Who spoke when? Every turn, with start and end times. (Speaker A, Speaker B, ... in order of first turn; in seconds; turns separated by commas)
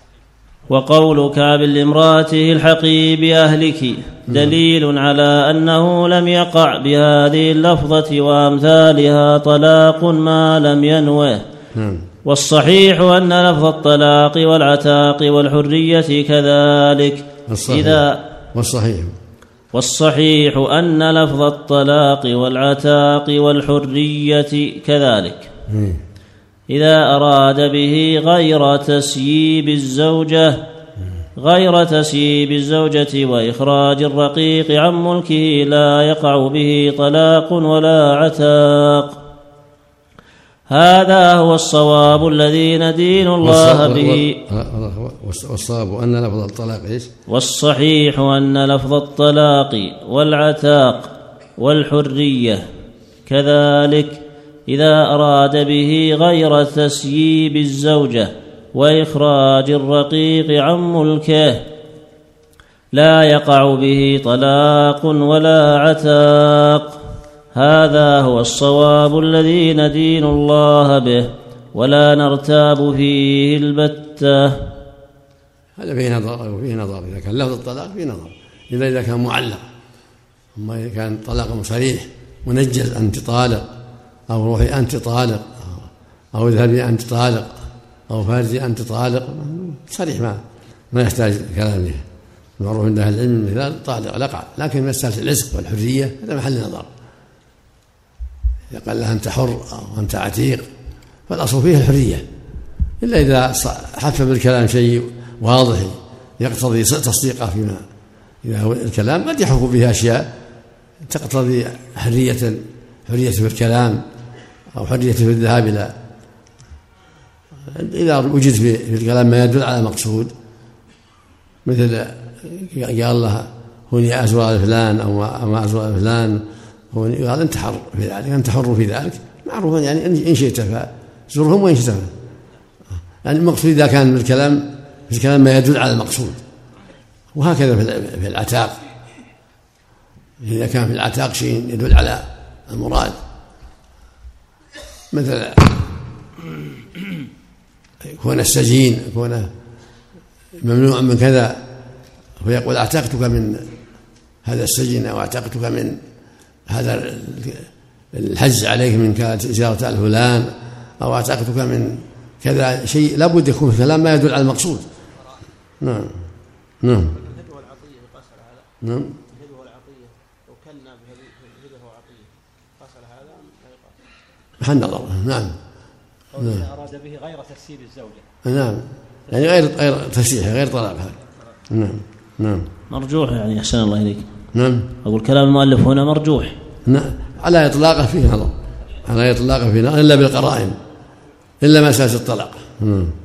Speaker A: 0.7-11.4, Speaker B: 4.3-4.5, Speaker B: 11.7-12.1, Speaker A: 12.2-18.2, Speaker B: 17.5-19.1, Speaker A: 19.7-25.5, Speaker B: 25.7-26.0, Speaker A: 26.7-30.6, Speaker A: 31.4-39.2, Speaker A: 40.7-44.4, Speaker B: 43.4-47.1, Speaker A: 47.3-52.6, Speaker A: 53.2-61.6, Speaker A: 62.9-67.0, Speaker A: 67.5-74.7, Speaker B: 75.8-79.6, Speaker B: 80.5-83.7, Speaker B: 84.3-87.6, Speaker B: 88.1-90.4, Speaker B: 90.9-92.0, Speaker B: 92.6-96.9, Speaker B: 98.7-100.7, Speaker B: 101.3-102.2, Speaker B: 103.0-107.8, Speaker B: 108.4-110.3, Speaker B: 111.0-114.0, Speaker B: 114.7-115.9, Speaker B: 117.7-120.3, Speaker B: 121.6-132.1, Speaker B: 133.2-136.4, Speaker B: 137.3-138.8, Speaker B: 140.4-143.2, Speaker B: 145.1-145.9, Speaker B: 148.0-149.5, Speaker B: 150.6-151.6, Speaker B: 152.4-153.7, Speaker B: 154.4-156.0, Speaker B: 156.7-164.8, Speaker C: 165.2-165.4, Speaker B: 165.8-166.2, Speaker B: 166.8-167.1, Speaker C: 166.9-168.7, Speaker B: 168.8-169.2, Speaker C: 169.3-174.0, Speaker B: 174.6-175.6, Speaker C: 176.3-178.3, Speaker B: 176.4-176.6, Speaker B: 178.4-181.1, Speaker C: 179.3-179.8, Speaker C: 181.1-181.5, Speaker B: 181.7-182.7, Speaker A: 182.9-184.2, Speaker B: 184.5-184.9, Speaker A: 185.0-186.5, Speaker B: 186.8-188.5, Speaker B: 189.0-190.8, Speaker B: 191.6-193.1